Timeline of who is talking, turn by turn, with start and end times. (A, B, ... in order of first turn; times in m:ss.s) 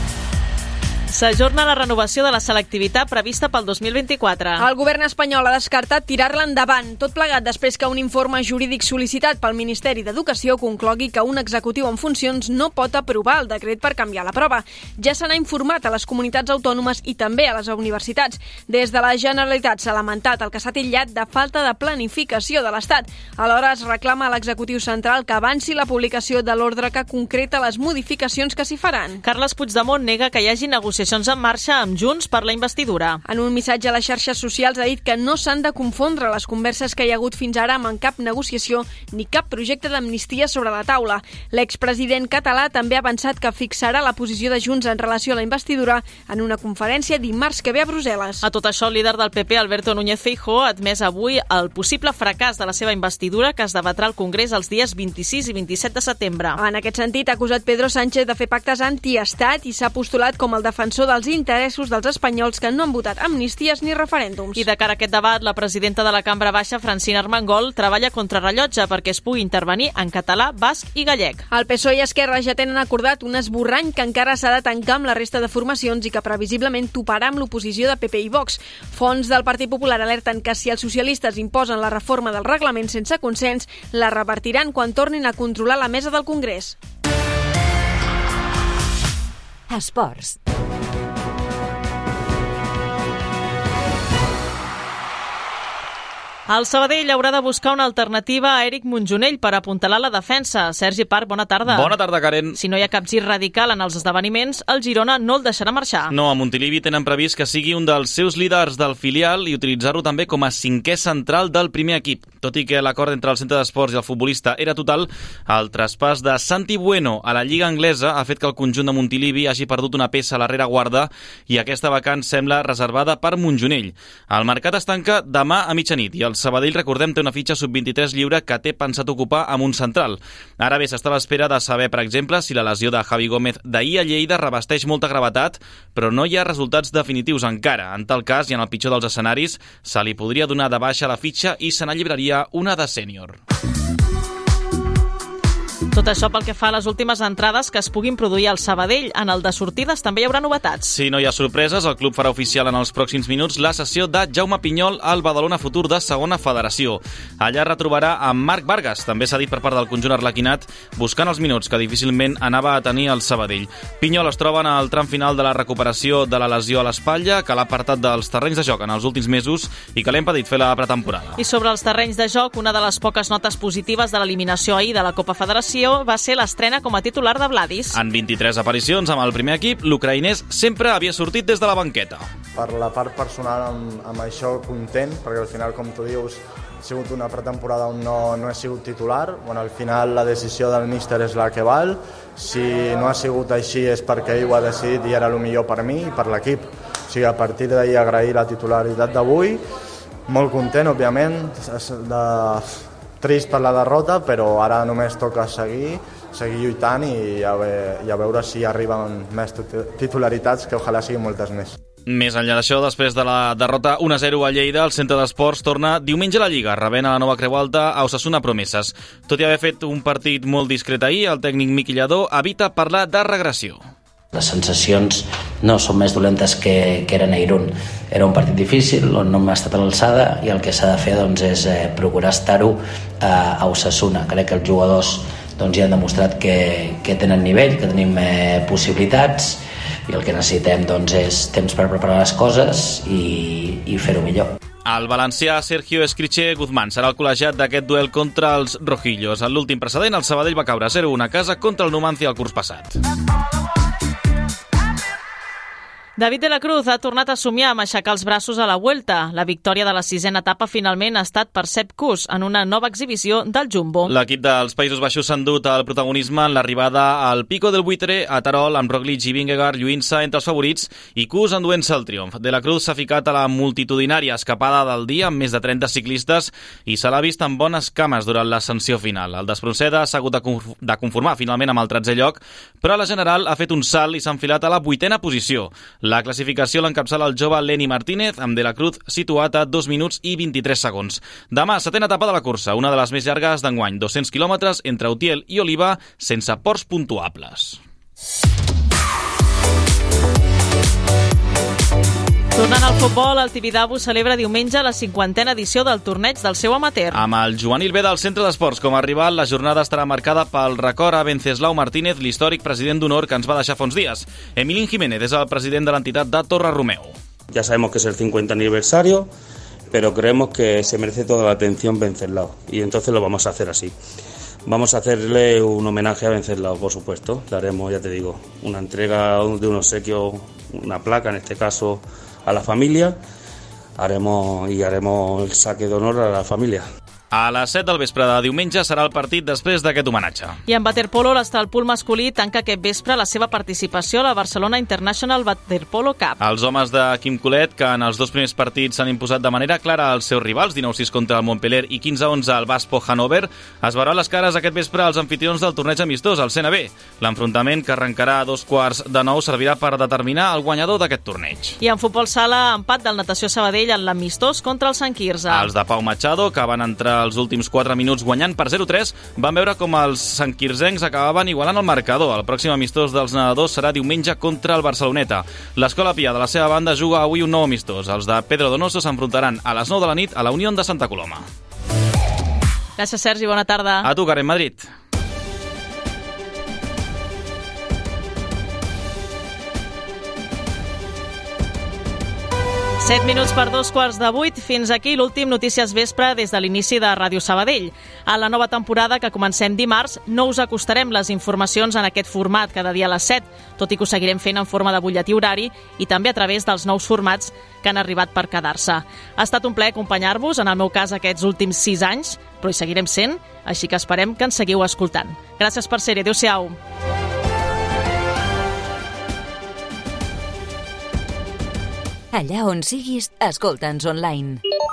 0:01.1-0:04.6 A
0:04.6-0:29.2 B
0:29.2-0:33.2 A
0:33.2-0:48.4 B
0:48.4-0:56.6 A
0:56.6-1:04.6 B
1:04.5-1:11.4 A
1:11.5-1:26.8 B
1:29.7-1:30.4 C
1:36.5-1:41.9 A
1:41.7-1:42.6 D
1:42.5-1:46.1 A
1:46.1-2:23.4 D
2:25.9-2:30.9 A
2:30.9-2:51.4 D
2:51.4-2:58.0 A
2:57.9-3:02.3 D
3:02.6-3:19.6 E
3:20.3-3:31.8 E
3:32.0-3:43.8 D
3:44.3-4:04.6 F
4:04.8-4:13.0 D
4:16.2-4:24.1 A
4:24.1-4:57.8 D
5:02.5-5:07.2 A
5:07.1-5:17.1 D
5:17.5-5:19.3 G
5:19.9-5:23.9 G
5:24.6-5:33.2 G
5:34.0-5:36.8 G
5:37.3-5:40.6 D
5:40.7-5:46.4 A
5:46.4-6:01.8 D
6:01.8-6:05.7 A
6:05.5-6:21.5 D
6:23.0-6:24.1 A
6:24.0-6:24.9 D
6:33.0-6:56.8 A
7:02.3-7:04.6 C